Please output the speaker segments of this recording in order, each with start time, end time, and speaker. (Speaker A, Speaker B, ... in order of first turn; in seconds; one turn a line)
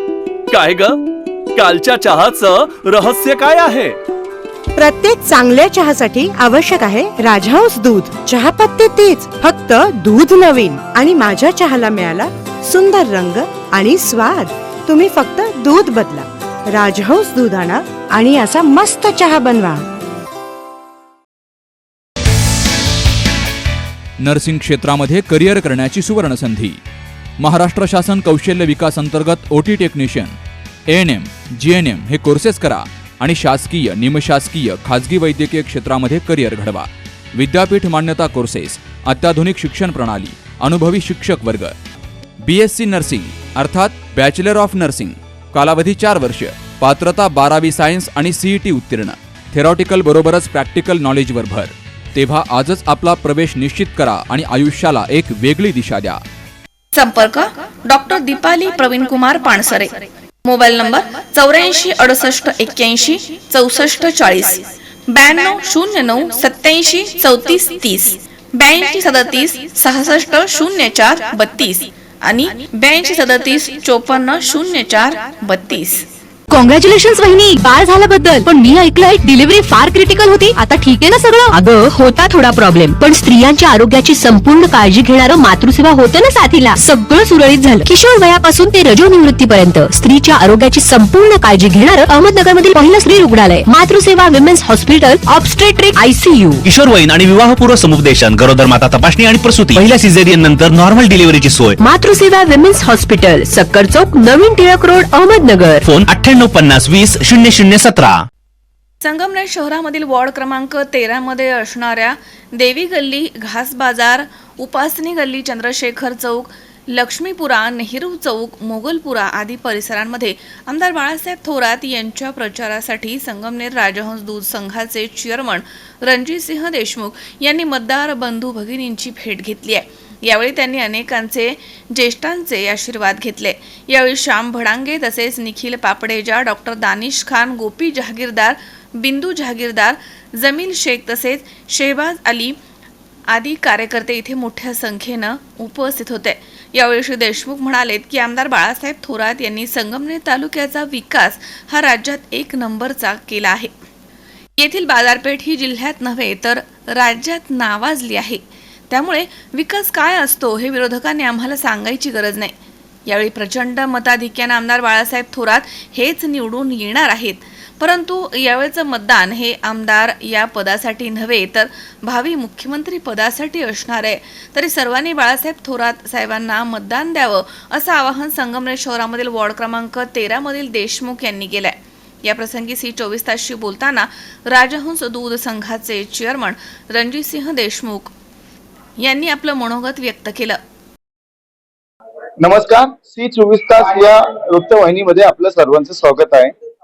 Speaker A: 0.5-1.0
Speaker A: 1.5-4.0
Speaker B: 4.8-19.8
Speaker C: 24.2-26.8
Speaker C: 27.4-30.3
Speaker C: 30.9-41.8
Speaker C: 42.4-56.2
Speaker D: 56.9-76.1
Speaker E: 76.5-96.6
Speaker F: 96.7-101.8
Speaker E: 101.8-105.9
Speaker F: 105.9-108.2
Speaker D: 109.0-142.5
Speaker D: 143.3-153.7
Speaker D: 154.6-162.5
Speaker D: 163.1-188.1
Speaker D: 189.0-190.6
Speaker G: 192.4-196.5